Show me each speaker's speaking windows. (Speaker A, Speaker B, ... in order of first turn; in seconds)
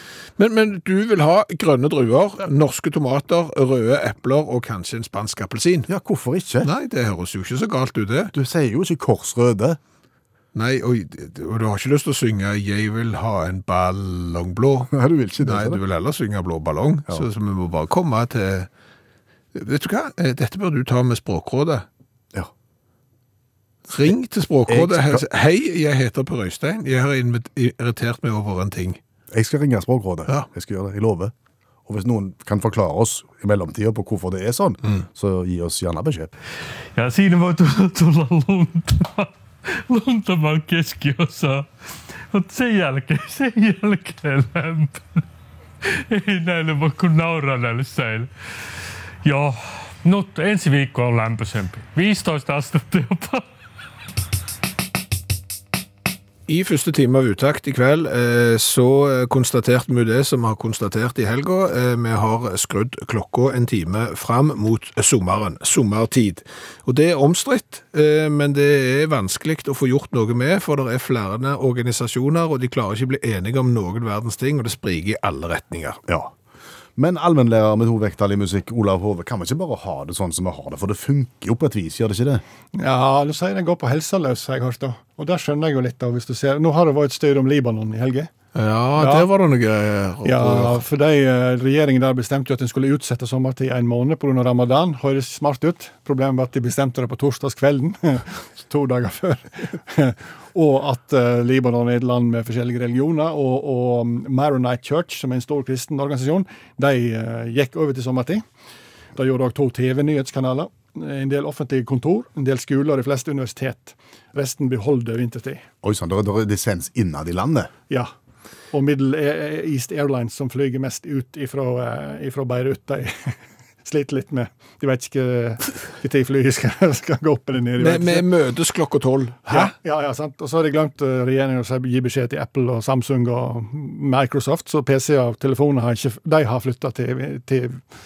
Speaker A: 0.4-5.9, 6.6-8.3, 10.5-18.7, 19.5-21.9, 23.9-29.0, 56.5-76.0, 88.5-90.8, 127.8-129.7
Speaker B: 5.9-6.7, 8.3-9.8, 14.9-15.8, 24.7-25.2, 29.3-31.3, 31.9-36.3, 76.1-76.3, 77.0-82.4, 115.8-117.7
Speaker C: 36.9-41.7, 42.3-45.2, 45.8-48.3, 49.2-53.5
Speaker D: 82.7-88.3, 89.0-89.3, 90.2-108.4, 109.1-115.6, 118.7-128.3, 129.5-137.8